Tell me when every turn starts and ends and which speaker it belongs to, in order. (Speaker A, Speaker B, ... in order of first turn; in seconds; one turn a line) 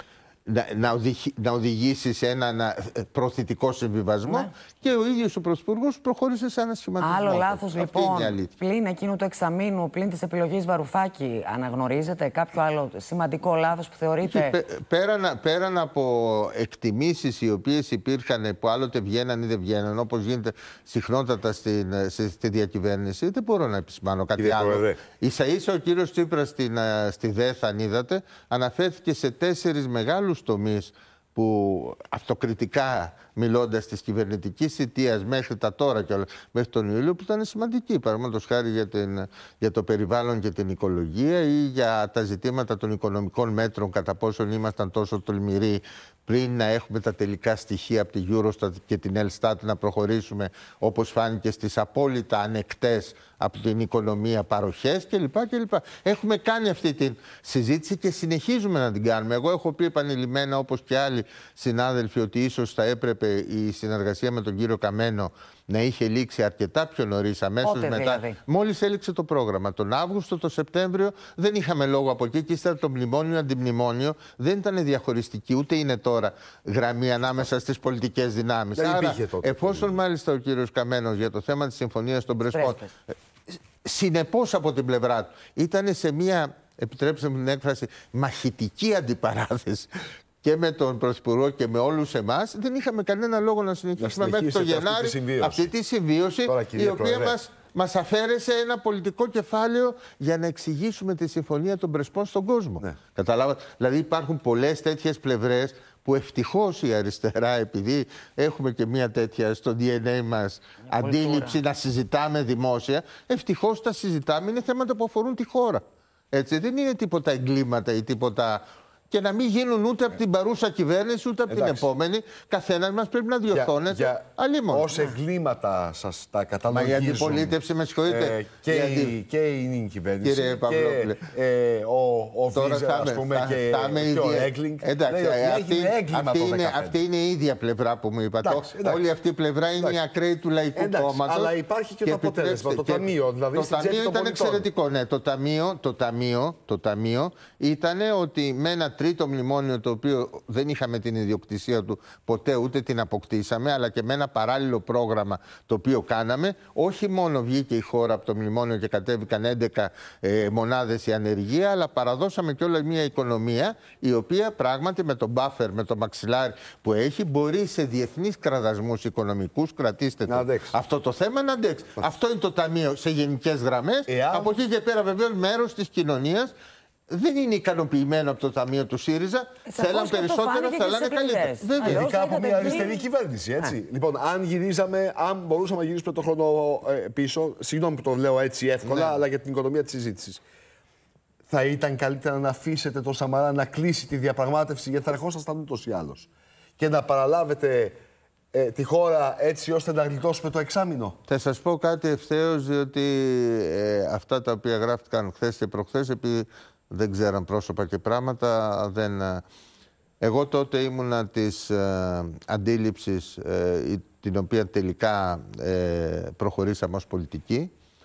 Speaker A: 0.5-8.5
Speaker B: 7.0-14.5
Speaker A: 14.2-89.9
Speaker C: 24.4-25.0
Speaker B: 67.6-68.4
Speaker C: 78.8-80.0
Speaker B: 82.5-82.9
Speaker A: 90.4-124.9
Speaker C: 94.0-95.7
Speaker C: 96.5-97.4
Speaker B: 110.9-111.6
Speaker C: 121.5-121.9
Speaker C: 123.5-137.0
Speaker A: 126.7-129.1
Speaker A: 130.2-131.2
Speaker A: 132.5-141.5
Speaker C: 138.4-139.0
Speaker C: 140.8-144.7
Speaker A: 142.0-176.5
Speaker C: 170.3-170.7
Speaker C: 174.1-174.5
Speaker A: 177.1-182.1
Speaker B: 179.7-183.0
Speaker C: 181.8-190.4
Speaker A: 188.8-189.2
Speaker C: 191.5-198.0
Speaker C: 198.5-201.2
Speaker A: 201.3-209.4
Speaker A: 210.2-217.7